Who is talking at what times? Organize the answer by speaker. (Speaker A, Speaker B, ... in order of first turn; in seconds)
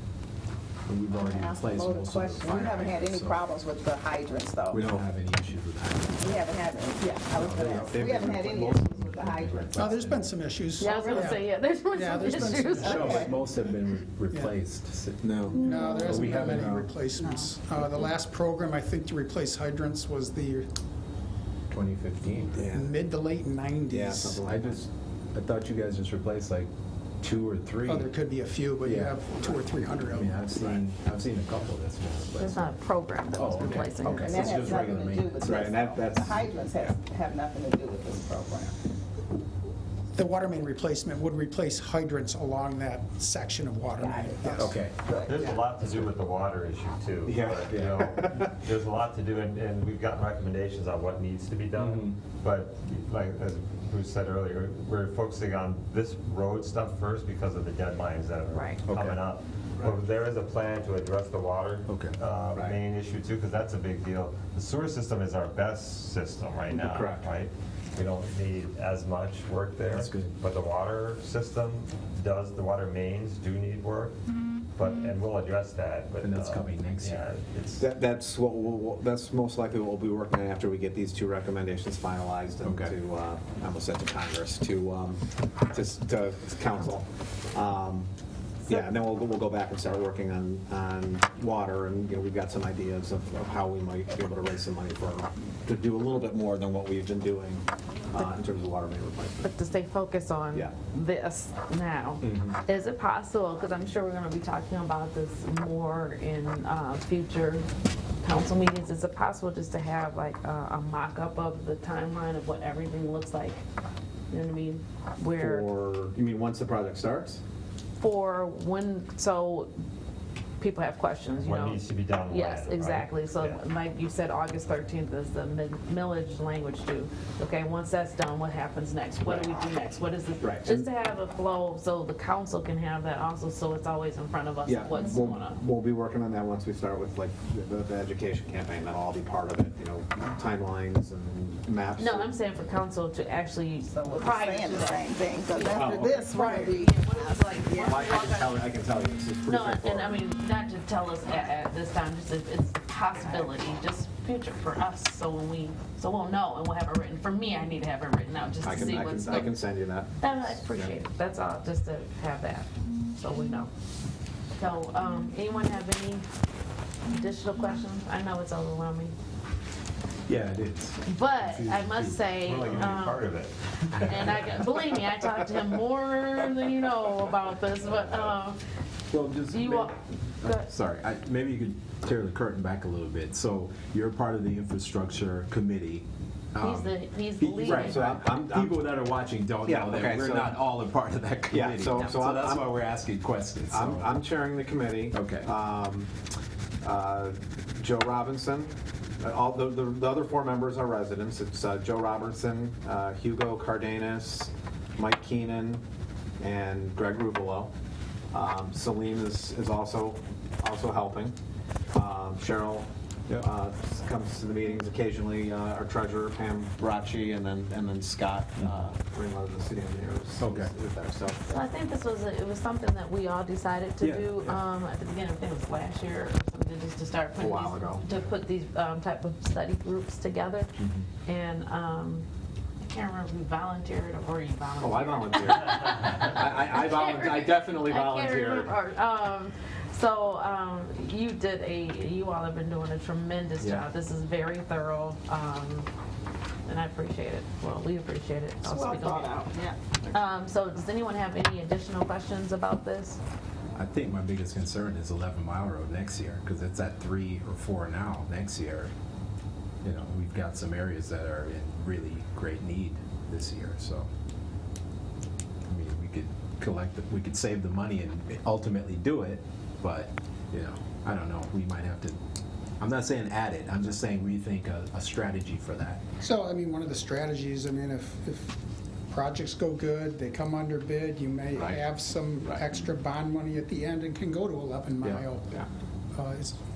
Speaker A: 0.9-3.4, 4.7-6.5, 7.3-10.3, 12.8-15.4, 16.0-16.9, 21.7-22.7, 24.4-26.7, 27.2-28.1, 28.8-29.2, 30.1-32.7, 33.3-35.7, 44.5-45.0, 45.8-46.1, 47.7-48.0, 51.8-52.2, 58.9-59.2, 61.9-62.8, 66.7-67.3, 69.9-70.3, 76.2-77.2, 82.6-83.0, 170.3-172.9, 179.1-194.1, 195.1-195.5, 220.4-220.7, 224.0-224.6, 230.8-231.1, 253.7-258.9, 259.8-264.1, 265.7-272.2, 272.8-276.0
Speaker B: 1.1-5.0, 6.1-9.9, 10.9-11.4, 12.2-13.4, 17.2-17.5, 34.1-38.8, 44.0-45.4, 143.9-148.2, 248.6-249.8
Speaker C: 7.9-9.1, 15.2-16.8, 22.6-23.0, 23.9-24.9, 30.6-30.8, 35.4-37.0, 47.3-48.5, 77.8-88.1, 88.7-99.5, 102.2-102.5, 115.4-117.4, 130.4-130.9, 134.7-142.3, 145.5-146.6, 147.8-150.2, 158.6-161.0, 187.4-188.8, 189.7-190.6, 191.5-192.7, 193.7-196.1, 196.8-205.8, 206.4-207.7, 208.3-211.3, 211.9-221.6, 227.4-228.0, 234.8-238.8, 243.6-243.9
Speaker D: 9.8-13.3, 15.6-20.7, 22.7-24.4, 27.9-30.4, 40.1-44.8, 276.2-278.6, 279.1-285.6, 286.1-286.6
Speaker E: 10.8-13.2, 32.4-34.7, 58.5-58.8, 99.4-107.7, 108.2-113.6, 114.3-115.7, 118.0-119.7, 120.6-135.6, 142.0-148.7, 149.5-159.6, 160.2-163.7, 164.6-166.3, 167.1-169.2, 171.1-173.2, 173.9-178.6, 179.5-180.7, 186.6-188.1, 221.5-230.7, 231.3-232.3, 232.8-245.9, 246.7-249.4, 250.1-253.2
Speaker F: 45.2-74.2, 74.8-77.9, 121.4-123.6, 172.4-174.4